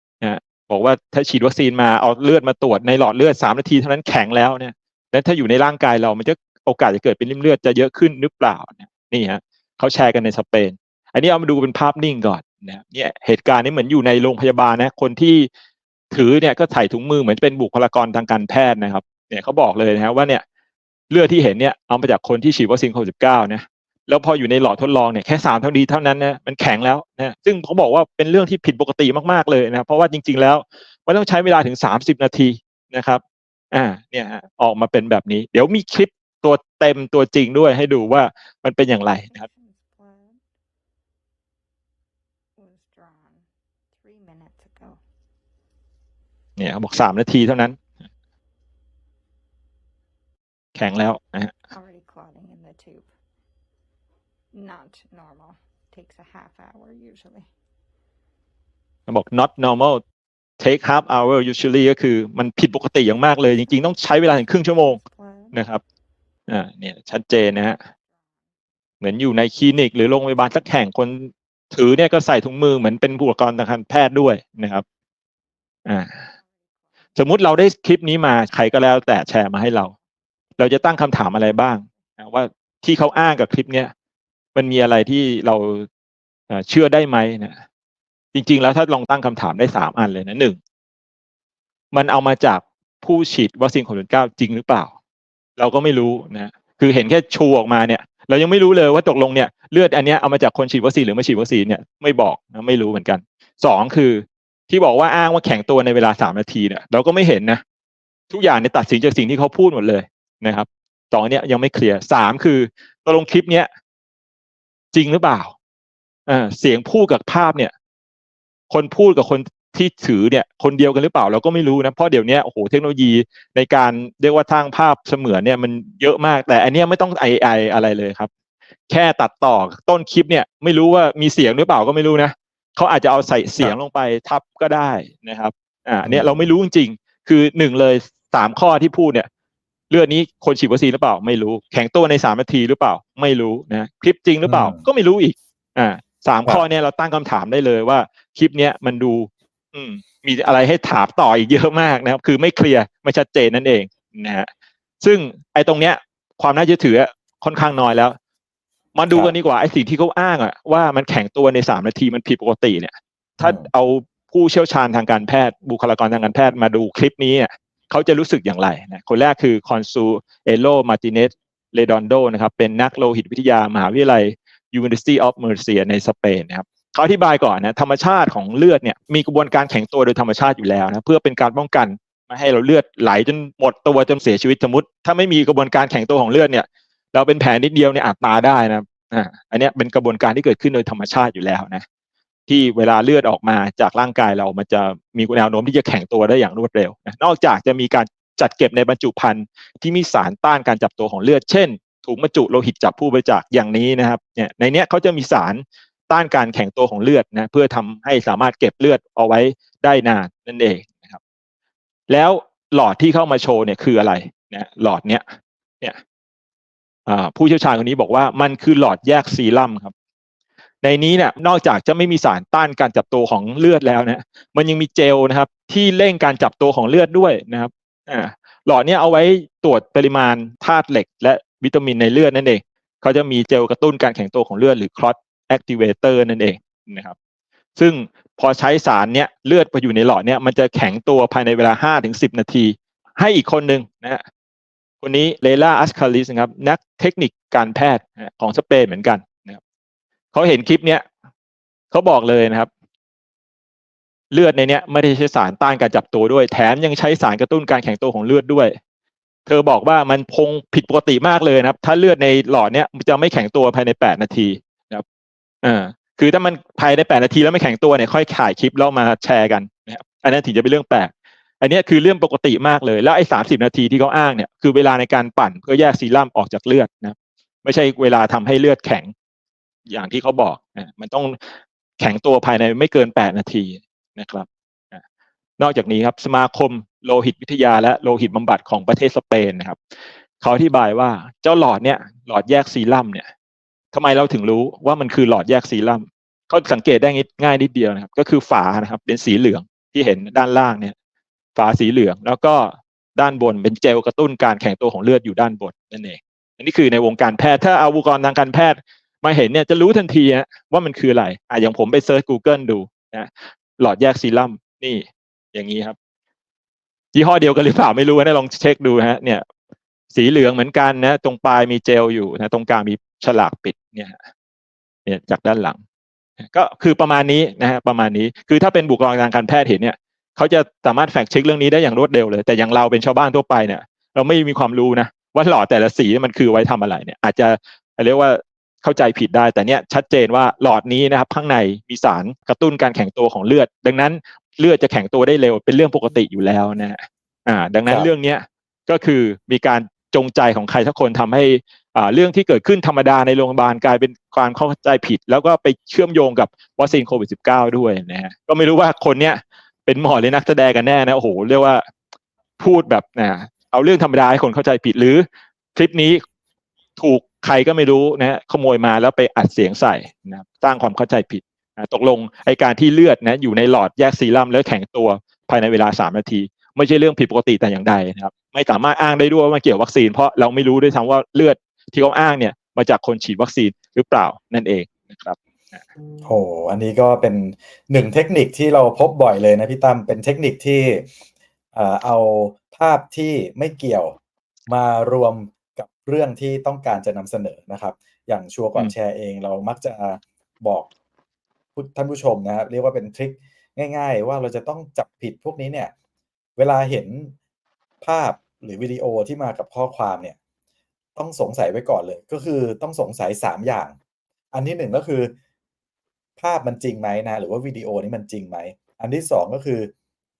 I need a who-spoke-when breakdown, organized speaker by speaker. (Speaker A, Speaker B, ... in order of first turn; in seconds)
Speaker A: 0.2-15.5, 16.1-20.4, 21.1-33.2, 33.7-39.5, 46.6-47.8, 50.7-51.5, 59.1-60.0, 60.6-65.0, 65.5-65.8, 66.5-67.8, 69.0-74.8, 75.8-76.2, 77.2-79.9, 80.6-83.9, 84.5-85.9, 86.5-87.6, 88.3-90.6, 91.9-94.9, 95.6-107.6, 108.3-113.7, 114.9-115.5, 116.3-117.7, 118.7-128.3, 128.9-139.3, 139.9-154.5, 155.0-158.2, 158.9-191.8, 192.5-211.2, 212.1-215.2, 217.1-219.9, 220.8-237.1, 237.8-244.2, 245.0-249.6, 250.3-251.0, 251.9-252.7, 254.3-258.7, 259.4-265.0, 265.6-279.1, 279.9-281.4, 282.0-285.0, 285.6-289.8, 290.4-293.3, 293.9-300.9, 301.6-315.9, 317.1-319.4, 320.1-324.2, 325.1-325.8, 326.5-361.8, 362.6-366.2, 367.0-385.8
Speaker B: 39.2-40.4, 42.6-45.0, 51.7-53.1, 54.5-57.5, 64.8-65.6, 68.1-68.4, 76.3-76.9
Speaker C: 136.0-136.5, 144.4-144.8, 159.1-159.3, 163.4-163.7, 347.8-348.1, 386.2-391.1, 391.7-394.1, 394.7-400.9, 401.8-405.9, 406.6-407.3, 408.0-410.4, 411.1-413.9, 414.5-415.3, 416.4-419.9